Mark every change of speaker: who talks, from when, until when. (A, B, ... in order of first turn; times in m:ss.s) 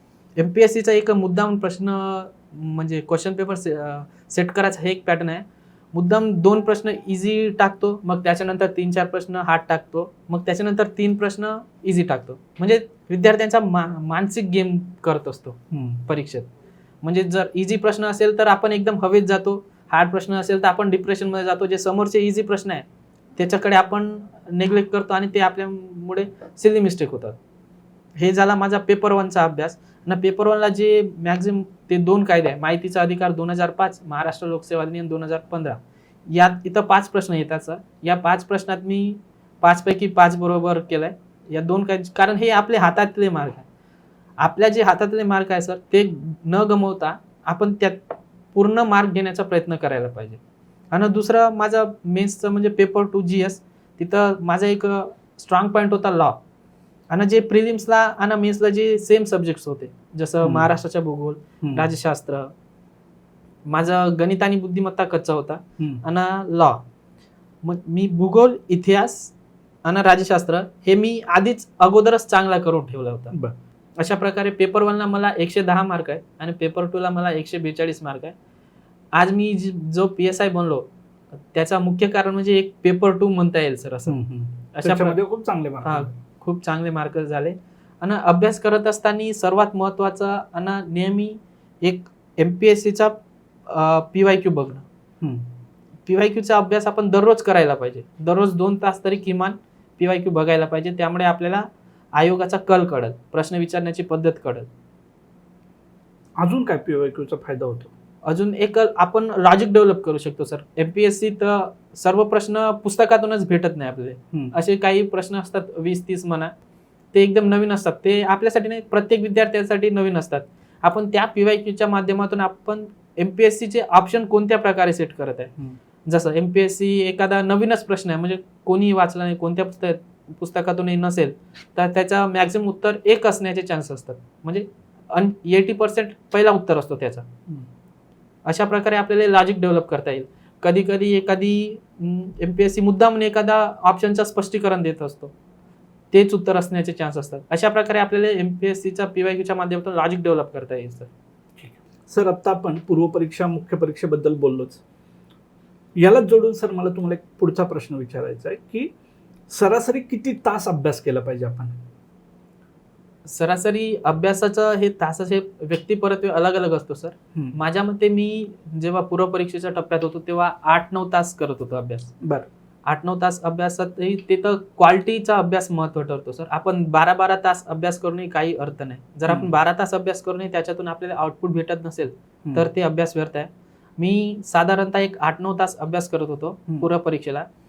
0:00.4-0:16.5 A
0:15.7-0:16.0 B
0:17.0-0:22.8 A
0:23.4-0:27.4 A
0:28.2-0:43.6 A
0:44.4-0:50.4 A
0:50.9-0:56.4 A
0:57.1-1:02.5 A
1:00.4-1:00.7 B
1:01.6-1:01.9 B
1:03.7-1:06.8 A
1:07.6-1:09.3 A
1:09.8-1:13.3 A
1:14.0-1:18.3 A
1:19.1-1:20.9 A
1:21.5-1:24.2 A
1:24.1-1:26.1 B
1:24.7-1:25.2 A
1:25.8-1:34.8 A
1:35.2-1:35.4 B
1:36.0-1:44.7 A
1:46.4-1:47.9 B
1:48.2-1:56.5 A
1:57.1-2:05.5 A
2:06.1-2:17.3 A
2:18.4-2:25.3 A
2:26.1-2:31.1 A
2:31.6-2:34.8 B
2:36.0-2:38.9 B
2:39.5-2:41.8 B
2:43.2-2:52.1 A
2:52.2-2:52.5 B
2:52.8-3:07.5 A